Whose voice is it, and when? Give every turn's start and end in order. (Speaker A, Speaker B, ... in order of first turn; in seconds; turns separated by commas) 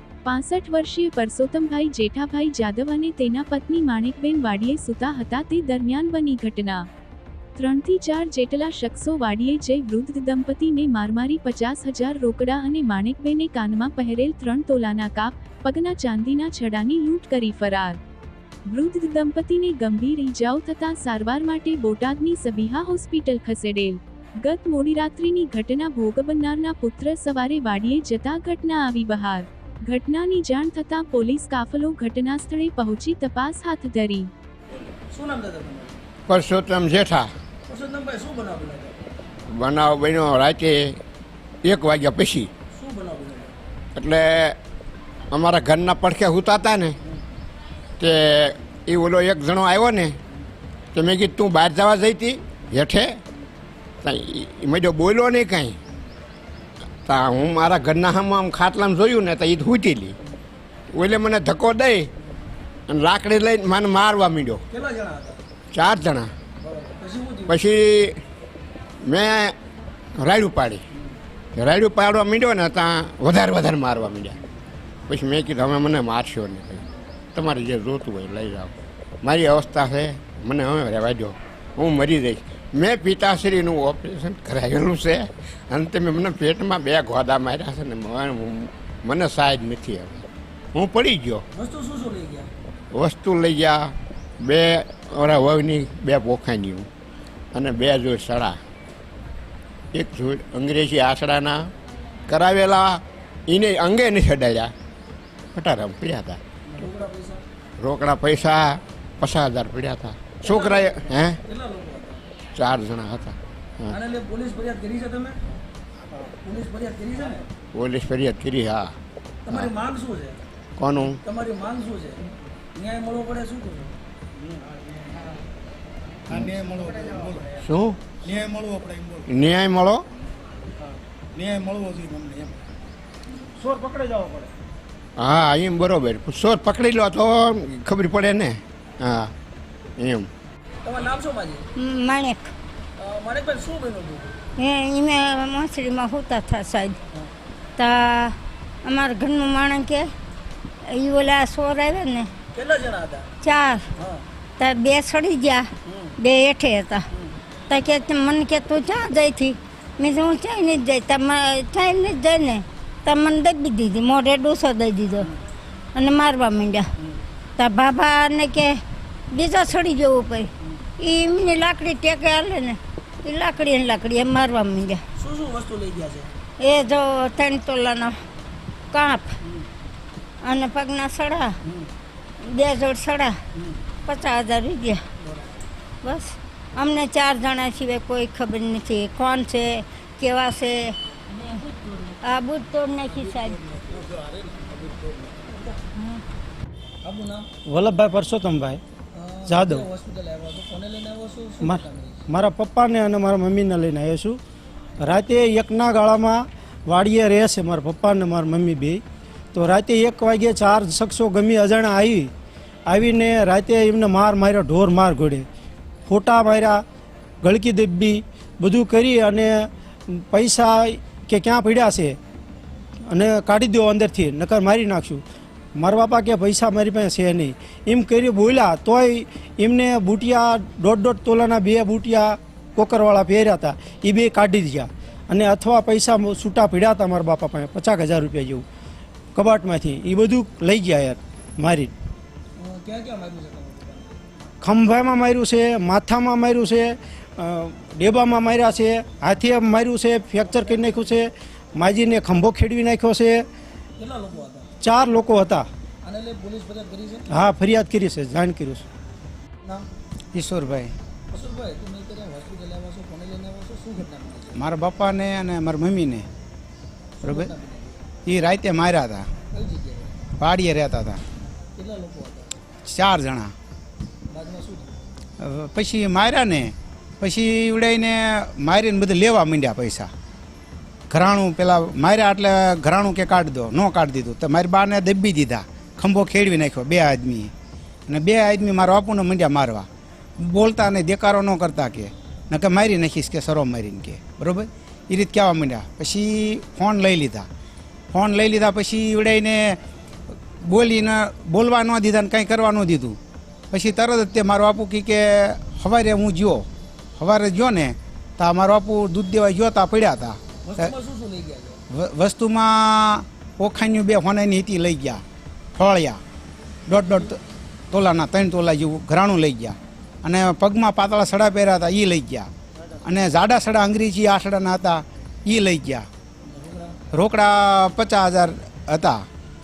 Speaker A: 0.2-6.9, Speaker A: 7.5-18.0, Speaker A: 18.7-34.3, Speaker B: 35.0-36.0, Speaker C: 36.3-37.3, Speaker B: 37.7-39.0, Speaker C: 39.5-41.0, Speaker C: 41.6-42.5, Speaker B: 42.7-43.5, Speaker C: 44.0-44.6, Speaker C: 45.3-47.0, Speaker C: 48.0-50.2, Speaker C: 50.9-53.2, Speaker C: 54.0-55.8, Speaker C: 57.0-60.2, Speaker C: 60.9-62.1, Speaker C: 62.9-64.6, Speaker B: 64.7-65.4, Speaker C: 65.7-66.3, Speaker B: 66.6-67.6, Speaker C: 67.5-68.2, Speaker C: 69.0-69.5, Speaker C: 70.2-70.8, Speaker C: 71.5-74.4, Speaker C: 75.1-78.7, Speaker C: 79.2-90.2, Speaker C: 90.7-91.4, Speaker B: 91.5-92.5, Speaker C: 92.9-96.9, Speaker C: 97.5-98.6, Speaker C: 99.9-101.7, Speaker C: 102.3-104.7, Speaker C: 105.5-106.4, Speaker B: 106.7-107.4, Speaker C: 107.8-111.4, Speaker B: 110.4-112.2, Speaker C: 112.5-114.0, Speaker B: 113.9-115.4, Speaker B: 116.4-117.5, Speaker C: 117.7-118.9, Speaker B: 119.5-120.4, Speaker C: 120.8-121.2, Speaker B: 121.2-122.2, Speaker B: 122.7-123.9, Speaker D: 126.3-127.5, Speaker C: 127.6-128.0, Speaker D: 128.2-129.2, Speaker C: 129.3-130.1, Speaker D: 131.4-132.5, Speaker C: 135.2-139.3, Speaker C: 140.0-140.3, Speaker B: 140.8-141.7, Speaker E: 141.8-142.5, Speaker B: 143.0-144.4, Speaker E: 144.6-147.0, Speaker E: 147.8-150.1, Speaker E: 150.9-152.3, Speaker B: 152.5-153.3, Speaker E: 153.4-153.8, Speaker B: 154.0-154.2, Speaker E: 154.6-157.0, Speaker B: 155.9-156.1, Speaker E: 157.7-165.3, Speaker E: 165.9-166.9, Speaker E: 167.6-168.8, Speaker E: 169.3-170.5, Speaker E: 171.0-175.0, Speaker B: 175.2-176.3, Speaker E: 176.6-178.2, Speaker E: 178.9-179.3, Speaker E: 180.4-181.6, Speaker E: 182.4-183.4, Speaker E: 184.1-185.0, Speaker E: 186.0-190.9, Speaker E: 192.0-193.6, Speaker D: 194.6-194.9, Speaker B: 195.5-195.8, Speaker B: 197.0-197.5, Speaker F: 197.7-198.8, Speaker B: 199.1-202.2, Speaker F: 199.5-199.9, Speaker F: 201.6-204.4, Speaker F: 205.0-212.3, Speaker F: 212.9-215.5, Speaker F: 216.1-216.8, Speaker F: 217.4-222.2, Speaker F: 223.1-225.2, Speaker F: 225.8-238.7, Speaker F: 239.3-241.9, Speaker B: 242.6-244.2, Speaker F: 244.6-253.5, Speaker B: 250.4-251.2, Speaker B: 254.0-254.7, Speaker F: 254.8-255.7, Speaker B: 256.0-257.3, Speaker F: 257.3-258.8, Speaker G: 260.3-260.9, Speaker B: 261.3-264.6, Speaker G: 264.5-266.3, Speaker B: 267.2-268.0, Speaker G: 267.2-267.5, Speaker G: 268.2-269.3, Speaker B: 269.5-270.2, Speaker G: 270.4-271.2, Speaker B: 271.8-272.5, Speaker G: 272.9-273.5, Speaker B: 274.3-274.9, Speaker G: 275.4-280.1, Speaker G: 281.1-287.5, Speaker G: 288.1-289.9, Speaker G: 290.4-297.5, Speaker G: 298.1-299.8, Speaker G: 300.6-303.2, Speaker G: 303.7-310.9, Speaker B: 310.6-311.8, Speaker G: 311.9-315.2, Speaker G: 315.8-316.2, Speaker G: 316.9-317.4, Speaker G: 317.9-322.5, Speaker G: 323.0-326.1, Speaker B: 326.4-327.0, Speaker G: 327.1-329.2